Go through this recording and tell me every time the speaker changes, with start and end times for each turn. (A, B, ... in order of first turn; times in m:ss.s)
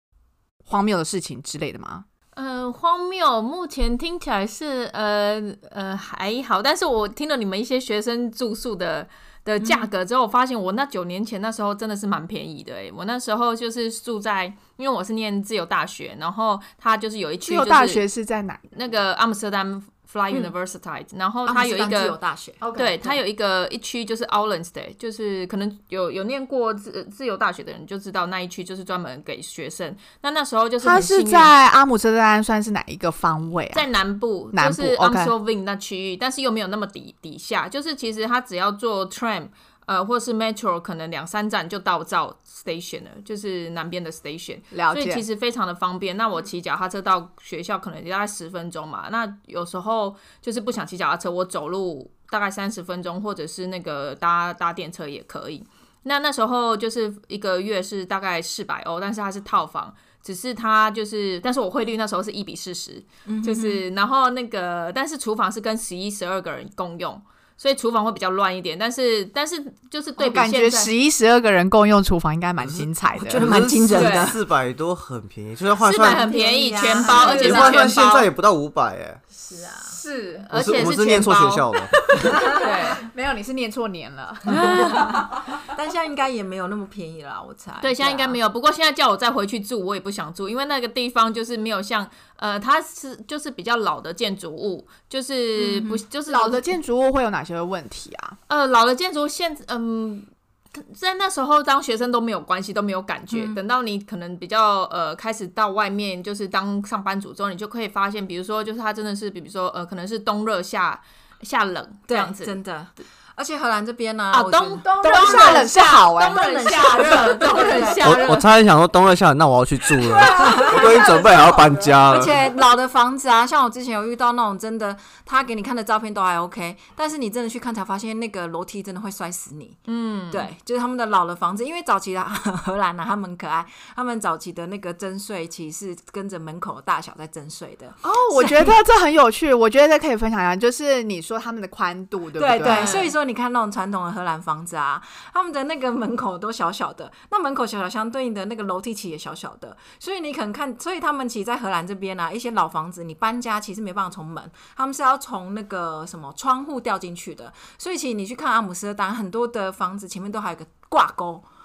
0:00.6-0:02.0 A
0:02.4-0:18.0 B
0:09.6-0:09.9 C
0:17.5-0:18.6 A
0:18.7-0:22.2 B
0:21.5-0:22.6 C
0:22.6-0:23.1 A
0:22.8-0:31.5 B
0:30.8-0:33.9 A
0:33.7-1:10.9 B
0:34.5-0:35.3 A
0:44.7-0:45.2 A
1:03.3-1:03.8 C
1:10.2-1:13.5 A
1:12.6-1:16.4 D
1:13.3-1:14.4 C
1:13.9-1:14.3 B
1:15.8-1:18.3 B
1:16.0-1:17.9 C
1:17.1-1:19.2 D
1:19.4-1:20.0 C
1:19.9-1:20.5 A
1:20.5-1:21.7 B
1:20.5-1:21.9 D
1:22.1-1:25.4 A
1:22.4-1:23.0 B
1:24.5-1:25.2 B
1:24.5-1:28.4 C
1:27.8-1:36.6 B
1:35.6-1:36.0 C
1:36.3-1:38.4 A
1:38.5-1:52.5 B
1:43.3-1:43.6 C
1:52.1-1:58.3 C
1:54.3-1:58.5 B
1:55.0-1:56.4 A
1:58.0-2:02.4 D
2:00.2-2:18.8 C
2:09.9-2:10.5 B
2:18.0-2:23.0 A
2:22.4-2:41.5 C
2:22.6-2:23.1 B